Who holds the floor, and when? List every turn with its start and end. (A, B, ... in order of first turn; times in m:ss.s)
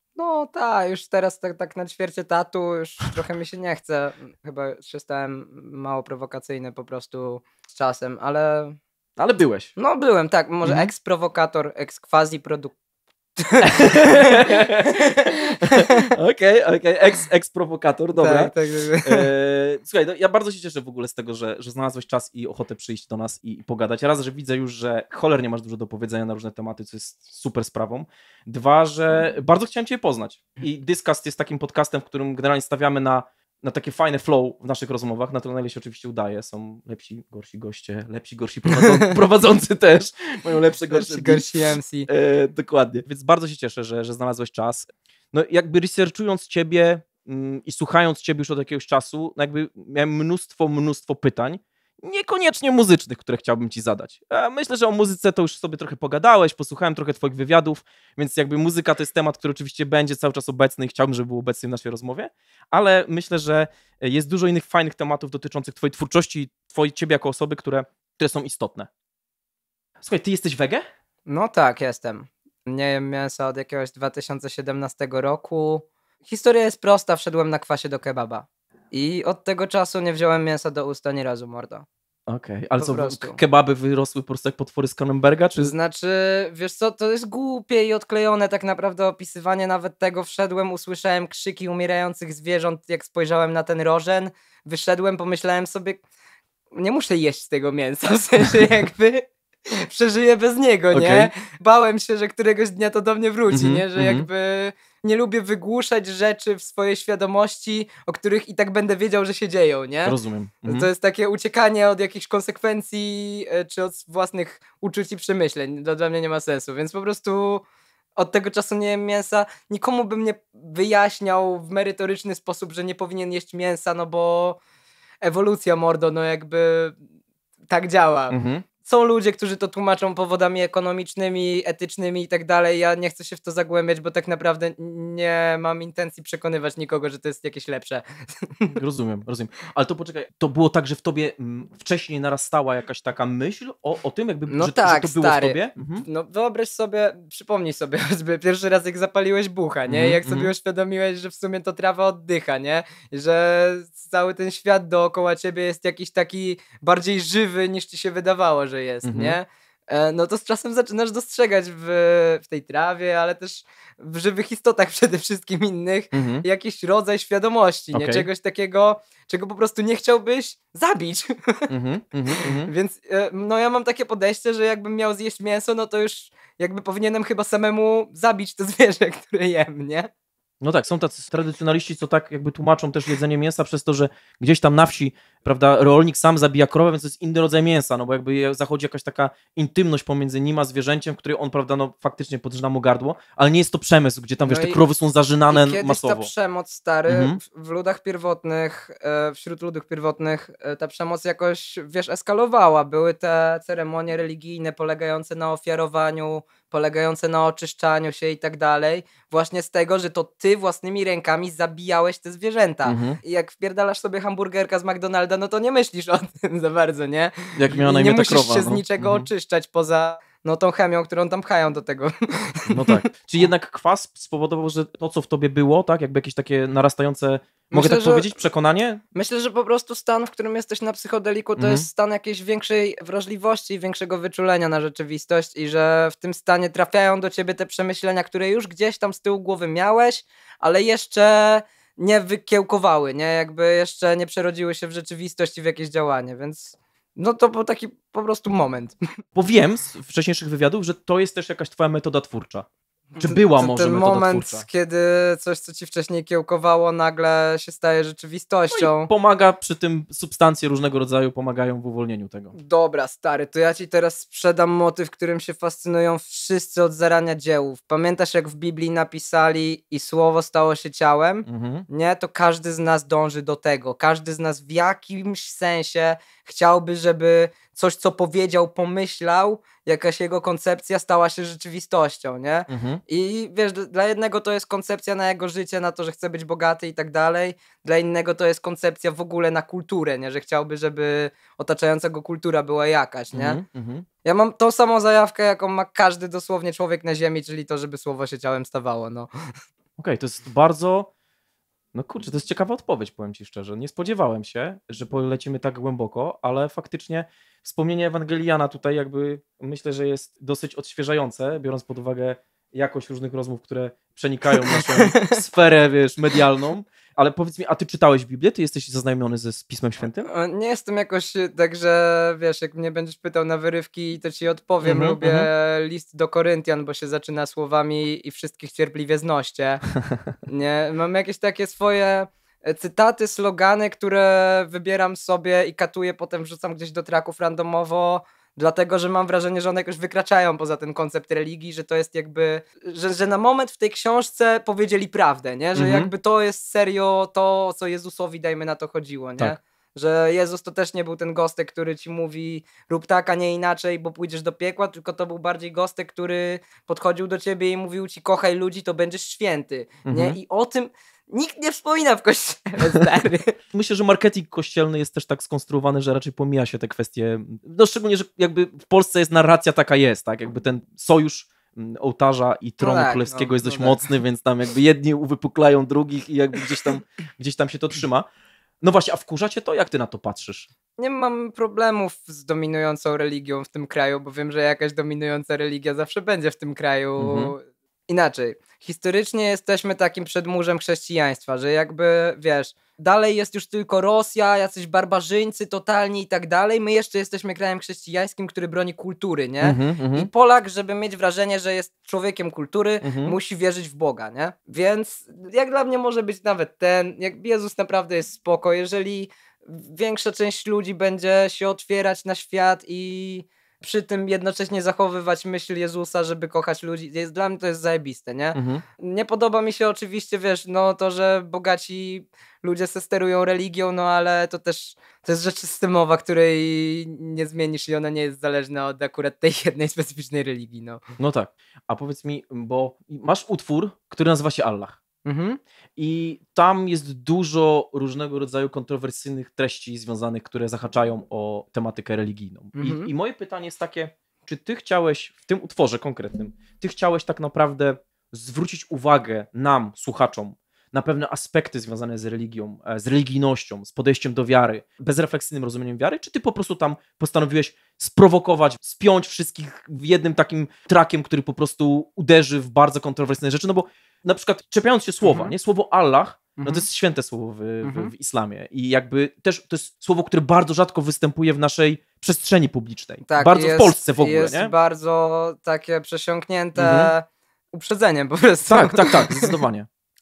0:00.2-0:08.8 A
0:09.2-0:09.7 B
0:09.8-0:12.8 A
0:10.6-0:10.9 B
0:13.4-0:15.0 A
0:13.6-0:41.5 B
0:15.7-0:16.0 A
0:18.1-0:19.3 A
0:38.8-0:39.2 A
0:40.9-0:42.1 A
0:42.1-1:08.9 B
1:10.0-1:10.8 B
1:11.3-1:21.9 A
1:22.3-1:25.7 B
1:22.8-1:23.4 A
1:25.6-1:36.0 A
1:36.7-1:50.2 A
1:40.9-1:41.3 B
1:43.5-1:44.3 B
1:50.0-1:50.9 B
1:50.7-1:57.6 A
1:58.2-2:04.6 A
2:05.2-2:07.0 A
2:07.7-2:18.8 A
2:08.3-2:08.7 B
2:18.7-2:26.0 B
2:24.5-2:51.7 A
2:29.9-2:30.5 B
2:39.0-2:39.4 B
2:46.1-2:46.4 B
2:47.9-2:48.3 B
2:51.7-2:52.7 B
2:52.4-3:00.1 A
3:00.6-3:16.3 B
3:14.5-3:14.8 A
3:15.5-3:43.0 A
3:17.1-3:17.4 B
3:32.8-3:33.2 B
3:37.6-3:39.3 B
3:42.7-3:49.0 B
3:47.7-3:48.3 A
3:49.1-4:09.0 A
3:51.6-3:51.9 B
4:09.4-4:12.7 B
4:13.1-4:19.1 A
4:13.2-4:14.7 B
4:18.7-4:22.6 B
4:22.5-4:53.6 A
4:31.5-4:31.9 B
4:42.7-4:43.0 B
4:53.3-4:54.1 B
4:54.2-4:59.3 A
5:00.0-5:01.1 B
5:01.9-5:20.3 B
5:14.7-5:15.4 A
5:20.3-5:29.8 A
5:24.8-5:25.5 B
5:30.5-6:03.5 A
5:45.8-5:46.1 B
6:00.0-6:00.4 B
6:03.7-6:18.3 B
6:12.8-6:14.0 A
6:18.8-6:20.7 B
6:21.0-7:11.0 A
6:27.2-6:27.6 B
6:39.6-6:40.3 B
6:43.0-6:43.4 B
6:58.5-6:58.8 B
7:11.2-7:15.0 B
7:15.2-7:15.6 A
7:16.0-7:54.7 B
7:22.8-7:23.1 A
7:45.2-7:45.5 A
7:46.6-7:46.9 A
7:47.8-7:48.1 A
7:53.2-7:59.5 A
7:56.8-7:57.1 B
7:58.7-7:59.9 B